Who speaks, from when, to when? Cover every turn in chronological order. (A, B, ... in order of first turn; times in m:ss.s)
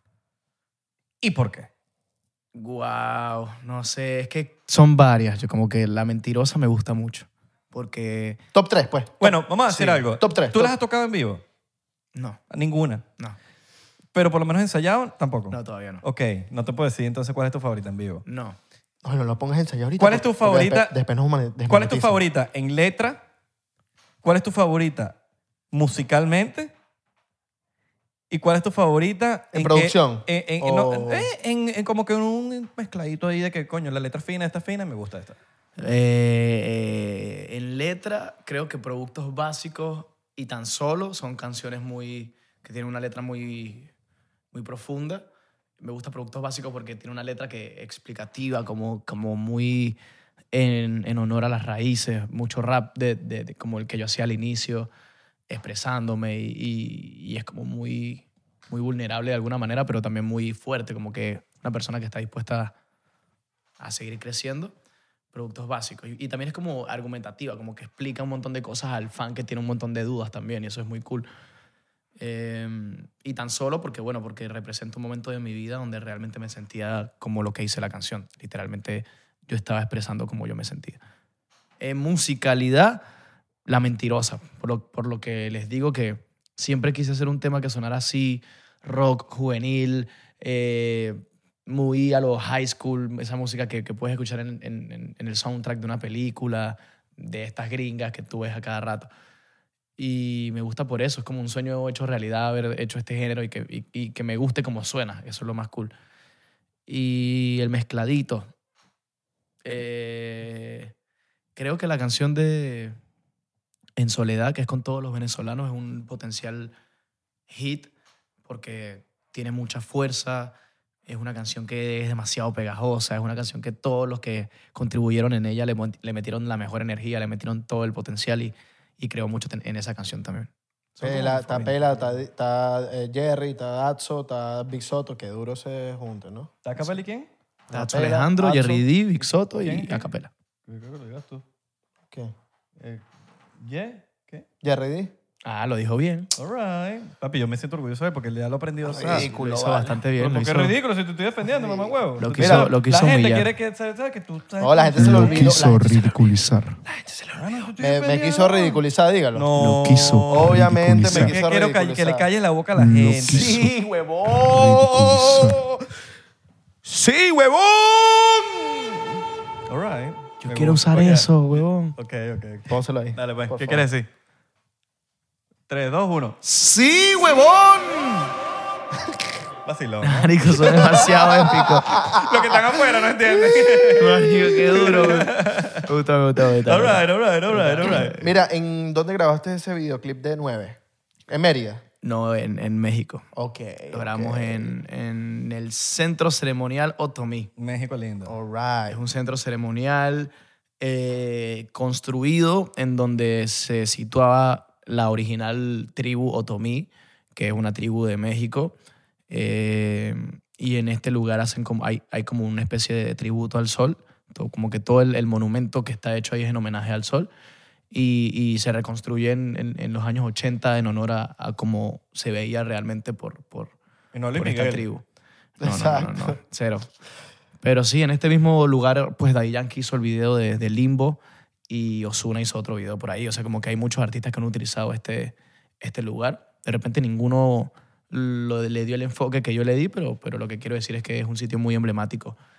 0:01.2-0:01.7 A
0:02.5-0:08.4 B
0:08.5-0:09.4 C
0:09.2-0:11.4 A
0:09.7-0:10.0 B
0:10.1-0:10.8 C
0:12.1-0:12.4 B
0:12.5-0:13.0 A
0:14.1-0:18.2 A
0:15.5-0:16.0 B
0:18.2-0:18.6 B
0:19.0-0:22.2 C
0:20.0-0:21.0 A
0:21.7-0:23.2 A
0:24.2-0:25.1 A
0:25.7-0:26.7 A
0:28.3-0:35.4 A
0:29.5-0:31.3 C
0:35.8-0:43.9 B
0:44.5-0:45.3 B
0:45.8-0:50.0 B
0:50.5-0:54.9 B
0:55.5-1:02.7 B
1:03.8-1:04.7 B
1:05.3-1:11.3 B
1:12.2-1:21.0 B
1:21.8-1:23.0 B
1:23.6-1:39.1 B
1:40.0-1:45.9 B
1:46.9-1:48.5 B
1:49.6-1:50.9 B
1:51.6-1:53.0 B
1:54.0-1:56.7 B
1:57.5-1:57.9 B
1:58.4-2:00.5 B
2:01.1-2:11.9 B
2:11.0-2:16.5 C
2:16.6-2:17.3 A
2:17.7-2:18.8 C
2:17.7-2:20.3 B
2:19.6-2:20.1 A
2:20.7-2:21.4 A
2:22.8-2:23.0 A
2:23.6-2:24.5 A
2:24.6-2:25.1 C
2:25.4-2:26.3 B
2:26.4-2:29.3 A
2:28.8-2:30.0 C
2:29.1-2:30.7 B
2:30.2-2:35.6 A
2:31.4-2:32.7 C
2:32.2-2:33.5 B
2:34.6-2:36.1 C
2:35.0-2:36.8 B
2:36.9-2:39.5 C
2:37.3-2:38.8 A
2:39.3-2:43.6 A
2:39.6-2:41.4 B
2:40.3-2:42.2 C
2:42.8-2:43.7 B
2:43.3-2:45.8 C
2:44.3-2:45.6 B
2:46.9-2:47.5 B
2:47.5-2:49.0 C
2:49.7-2:54.1 A
2:50.4-2:51.9 B
2:52.7-2:53.9 C
2:55.7-2:56.4 A
2:56.4-2:58.3 B
2:59.6-3:05.8 A
3:00.0-3:02.0 B
3:01.2-3:04.1 C
3:03.9-3:08.2 B
3:06.6-3:08.2 A
3:07.8-3:11.8 C
3:12.0-3:13.2 B
3:13.3-3:14.8 C
3:13.9-3:17.5 B
3:17.6-3:18.3 A
3:18.2-3:19.0 C
3:18.9-3:28.7 B
3:29.3-3:37.3 B
3:37.9-3:43.8 B
3:44.1-3:44.8 A
3:44.3-3:45.0 B
3:45.6-3:46.4 C
3:45.6-3:46.9 B
3:47.6-4:02.4 B